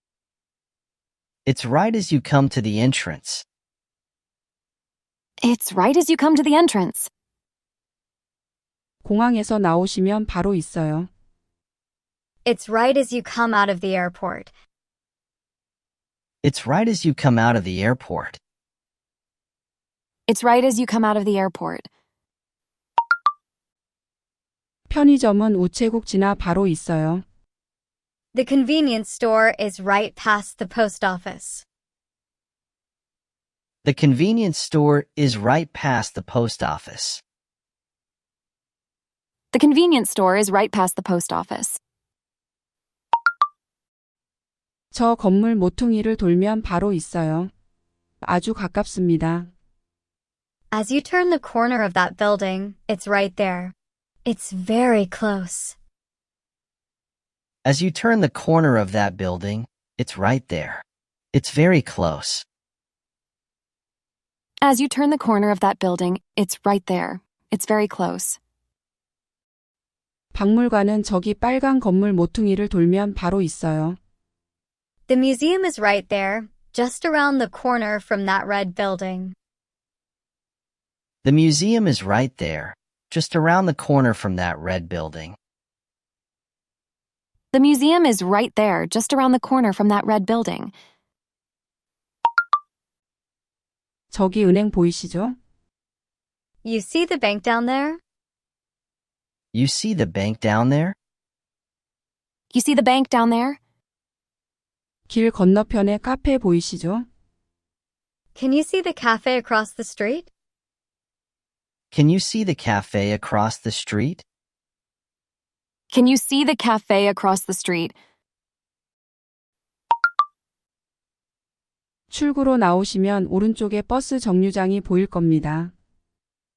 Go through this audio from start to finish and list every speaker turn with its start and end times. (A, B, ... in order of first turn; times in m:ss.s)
0:01.5-0:03.4 A
0:05.4-0:07.1 B
0:09.0-0:11.1 C
0:12.4-0:14.5 D
0:16.4-0:18.4 A
0:20.3-0:21.9 B
0:24.9-0:27.2 C
0:28.3-0:31.6 D
0:33.8-0:37.2 A
0:39.5-0:41.8 B
0:44.9-0:47.5 C
0:48.2-0:49.5 C
0:50.7-0:53.7 D
0:54.3-0:55.8 D
0:57.6-1:02.4 A
1:04.6-1:08.4 B
1:10.3-1:14.0 C
1:15.1-1:19.4 D
1:21.2-1:25.4 A
1:27.5-1:30.7 B
1:34.1-1:35.4 C
1:36.6-1:38.0 D
1:39.5-1:41.0 A
1:42.5-1:43.6 B
1:45.1-1:47.1 C
1:48.4-1:50.3 D
1:51.9-1:54.2 A
1:55.9-1:57.9 B
2:02.1-2:05.7 C